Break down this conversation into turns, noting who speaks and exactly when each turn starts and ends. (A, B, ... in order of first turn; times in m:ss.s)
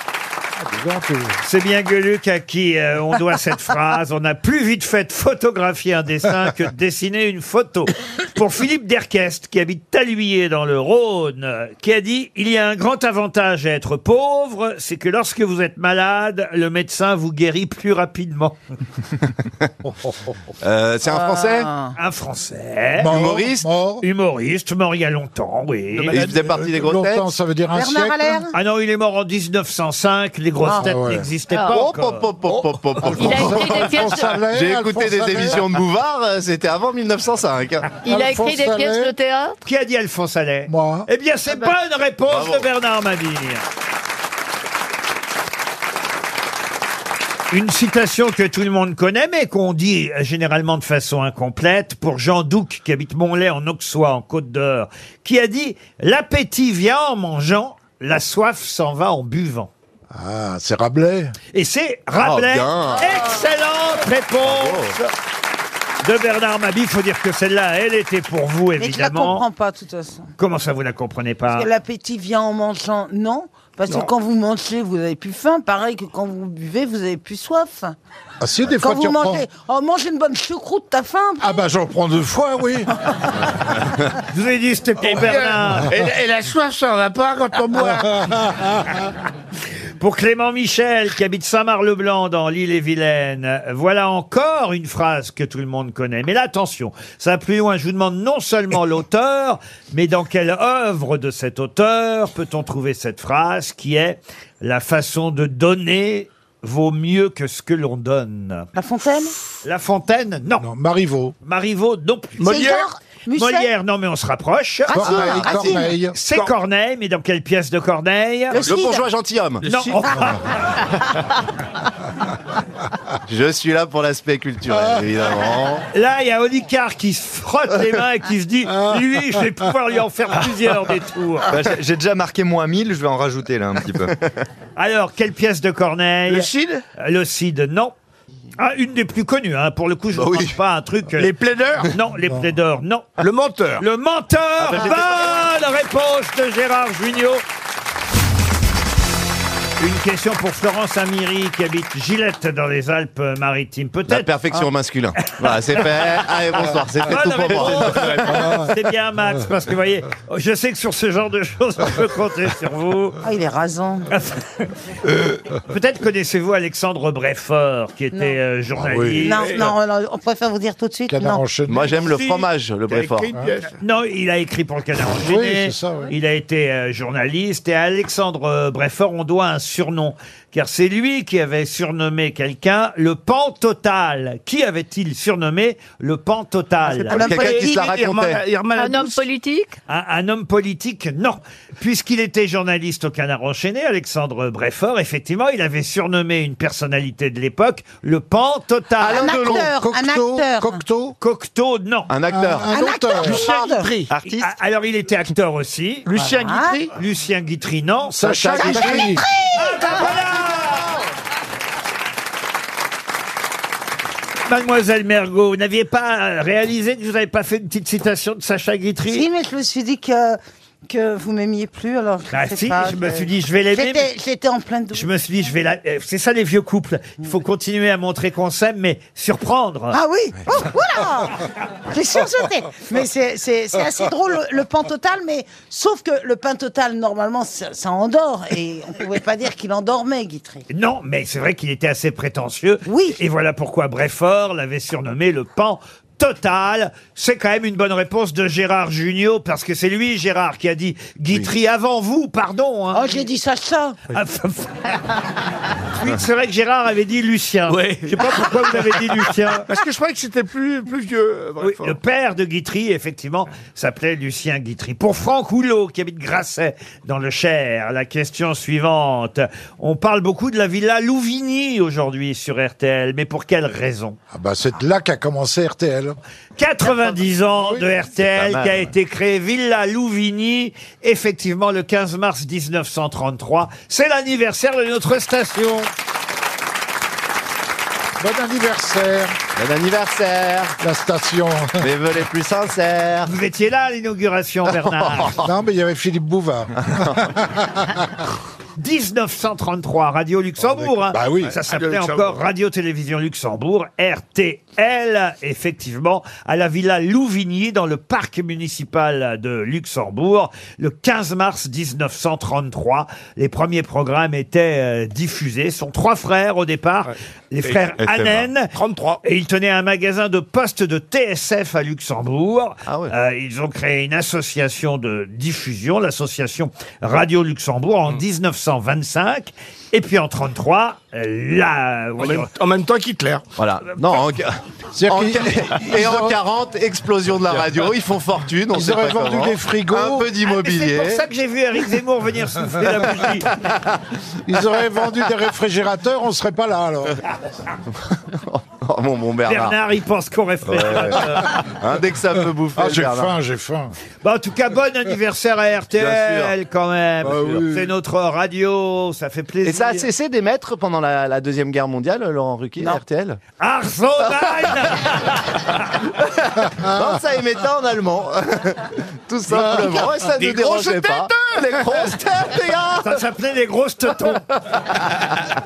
0:00.6-0:01.4 A
0:01.4-0:18.6 B
0:20.6-0:21.7 C
0:21.0-0:21.9 D
0:22.0-0:23.1 B
0:23.0-0:24.0 A
0:23.1-0:23.7 C
0:24.0-0:26.2 B
0:26.1-0:28.5 A
0:26.1-0:27.3 C
0:27.7-0:28.6 D
0:28.5-0:32.2 B
0:30.6-0:30.9 D
0:30.8-0:31.3 A
0:31.5-0:31.9 E
0:31.7-0:38.0 C
0:33.0-0:35.7 A
0:33.2-0:34.4 E
0:37.9-0:39.6 E
0:38.0-0:39.1 A
0:39.6-0:43.6 B
0:40.7-0:41.1 A
0:42.3-0:42.7 C
0:47.5-0:59.7 B
1:00.1-1:01.3 A
1:01.5-1:05.1 B
1:02.2-1:03.4 C
1:04.4-1:05.0 C
1:06.0-1:09.4 B
1:08.8-1:10.3 D
1:10.4-1:11.7 B
1:11.5-1:18.0 D
1:18.4-1:19.5 A
1:18.8-1:21.6 D
1:21.4-1:22.9 A
1:24.3-1:26.0 B
1:25.0-1:28.2 F
1:27.8-1:28.9 A
1:30.0-1:48.7 B
1:48.8-1:49.4 D
1:49.6-1:50.7 B
1:50.6-1:51.4 A
1:51.4-1:52.8 B
1:52.4-1:52.9 F
1:52.4-1:53.7 D
1:53.4-1:55.0 B
1:54.9-1:55.9 D
1:54.9-1:56.2 A
1:56.1-1:58.7 B
1:58.5-1:59.0 D
1:58.6-1:59.7 C
1:59.6-2:00.6 B
1:59.7-1:59.9 F
2:03.3-2:05.8 C
2:05.9-2:11.5 B
2:11.5-2:14.2 G
2:14.8-2:17.9 B
2:16.3-2:16.8 F
2:18.6-2:23.2 B
2:20.1-2:20.6 C
2:21.2-2:21.9 F
2:23.2-2:23.8 F
2:23.8-2:27.4 B
2:24.6-2:25.5 C
2:29.8-2:34.3 B
2:34.1-2:38.7 C
2:35.7-2:36.0 B
2:37.0-2:43.2 B
2:38.3-2:38.6 A
2:43.2-2:44.1 D
2:44.1-2:44.6 B
2:45.6-2:49.7 B
2:48.8-2:49.3 A
2:49.2-2:51.4 D
2:49.3-2:49.7 F
2:51.1-2:51.9 A
2:51.6-2:53.4 C
2:52.0-2:53.7 F
2:53.7-3:07.2 B
2:55.2-2:56.1 A
3:06.9-3:09.2 F
3:07.1-3:07.8 D
3:07.1-3:08.4 C
3:08.8-3:09.8 E
3:09.9-3:19.6 B
3:19.0-3:19.7 C
3:19.1-3:20.8 D
3:19.4-3:21.2 A
3:21.2-3:22.1 B
3:22.1-3:22.7 C
3:22.3-3:23.5 A
3:22.7-3:23.9 D
3:23.3-3:24.1 F
3:24.1-3:24.5 G
3:24.2-3:26.1 B
3:26.1-3:26.9 F
3:26.2-3:26.8 D
3:27.0-3:28.6 B
3:28.1-3:29.2 A
3:28.2-3:29.1 C
3:28.6-3:30.4 D
3:29.5-3:30.9 B
3:34.5-3:39.3 B
3:39.1-3:45.1 D
3:42.3-3:44.1 B
3:44.9-3:50.0 B
3:49.9-4:00.6 D
4:00.7-4:13.2 B
4:02.9-4:03.2 D
4:12.9-4:14.0 D
4:14.1-4:15.0 B
4:15.9-4:19.7 B
4:17.7-4:19.0 F
4:19.7-4:22.0 F
4:21.6-4:34.2 B
4:34.3-4:36.2 A
4:36.6-4:45.9 B
4:48.2-4:49.4 A
4:49.6-4:50.8 C
4:50.8-4:51.9 A
4:51.8-4:53.3 C
4:53.3-4:55.4 B
4:54.8-4:55.5 C
4:55.4-4:58.0 A
4:58.8-5:32.5 B
5:00.6-5:01.6 A
5:01.5-5:02.4 F
5:17.1-5:17.8 F
5:18.0-5:18.5 G
5:18.7-5:19.2 F
5:22.9-5:23.1 C
5:32.2-5:33.4 F
5:33.6-5:41.2 C
5:34.9-5:36.4 A
5:38.7-5:40.3 A
5:40.4-5:43.5 B
5:43.5-5:44.0 C
5:44.5-5:47.2 A
5:48.0-5:49.8 C
5:49.5-5:51.6 B
5:50.7-5:53.3 C
5:52.8-5:53.9 A
5:54.2-6:00.1 B
5:56.0-5:56.6 C
5:57.2-5:57.9 A
5:59.6-6:03.4 C
6:03.6-6:05.8 B
6:06.2-6:13.2 C
6:09.7-6:12.2 F
6:13.0-6:14.4 B
6:14.7-6:15.2 C